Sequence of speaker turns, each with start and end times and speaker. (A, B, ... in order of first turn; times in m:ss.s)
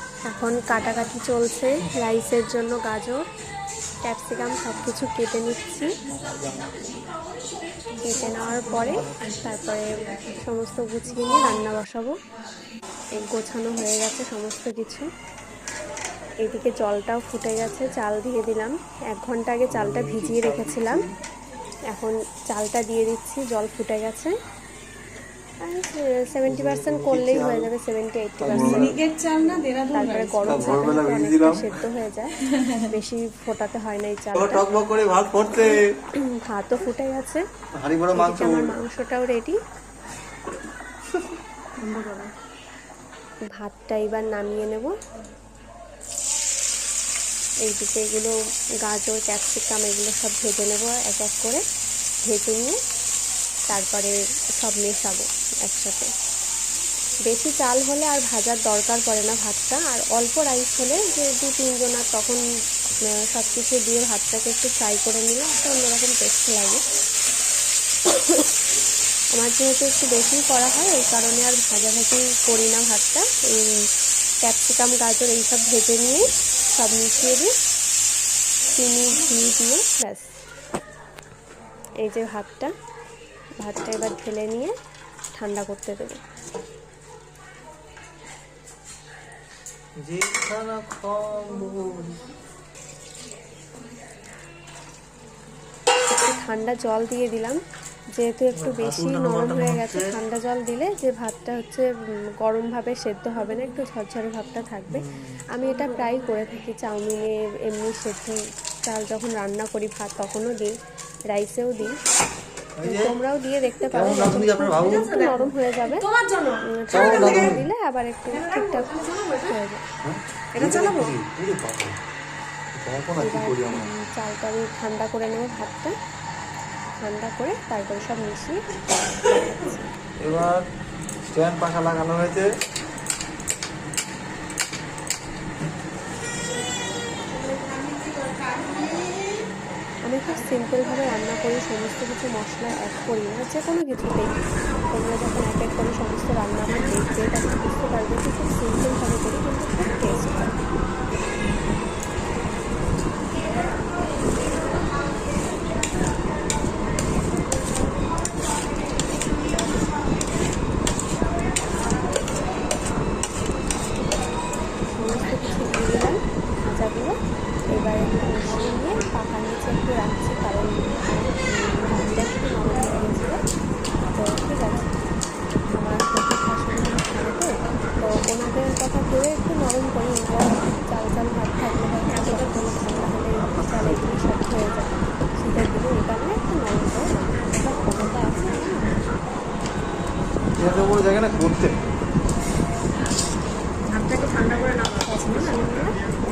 0:00.3-0:03.2 A
0:04.0-0:05.9 A
0:06.1-0:06.9 B
0:08.0-0:09.9 A
0:08.9-0:09.4 B
0:10.4-0:12.1 A
0:13.2-0:15.1 A
0:16.4-0:21.0 A
0:19.7-0:21.0 B
0:21.9-0:24.3 A
0:25.6-0:29.0 A
0:26.5-0:27.7 B
0:28.4-0:29.0 B
0:28.5-0:30.7 C
0:29.9-0:32.3 A
0:30.4-0:31.7 B
0:32.9-0:34.6 A
0:34.3-0:35.8 B
0:36.4-0:37.4 A
0:37.7-0:38.7 B
0:38.2-0:39.6 A
0:41.8-0:42.3 C
0:43.6-0:44.9 A
0:47.6-0:48.3 A
0:48.8-0:51.6 A
0:52.3-0:52.8 A
0:53.7-0:56.1 A
0:57.3-1:02.4 A
1:03.1-1:06.8 A
1:08.1-1:08.4 A
1:09.3-1:13.7 A
1:14.4-1:17.5 A
1:18.7-1:20.3 A
1:22.0-1:22.7 A
1:23.6-1:24.7 A
1:25.4-1:26.2 A
1:30.0-1:32.2 B
1:36.1-1:37.6 A
1:38.2-1:41.8 A
1:38.6-1:40.1 B
1:42.4-1:50.7 A
1:44.9-1:45.4 B
1:51.3-1:51.9 A
1:52.8-1:53.0 B
1:52.8-1:56.1 A
1:53.9-1:55.1 B
1:54.8-1:55.5 C
1:56.1-1:57.5 C
1:56.8-1:59.8 A
1:56.9-1:57.6 B
1:58.3-1:59.5 C
2:00.0-2:02.0 B
2:00.6-2:01.0 A
2:02.8-2:03.9 B
2:03.2-2:05.9 A
2:07.0-2:08.6 A
2:09.3-2:09.8 A
2:10.2-2:10.6 B
2:11.3-2:12.5 B
2:17.3-2:19.3 C
2:20.1-2:30.6 A
2:44.9-2:47.1 A
2:47.7-2:53.4 A
2:54.1-2:54.9 A
2:55.7-3:09.0 A
3:02.1-3:02.7 C
3:03.4-3:04.1 B
3:10.6-3:11.7 B
3:13.9-3:15.7 C
3:15.0-3:15.9 A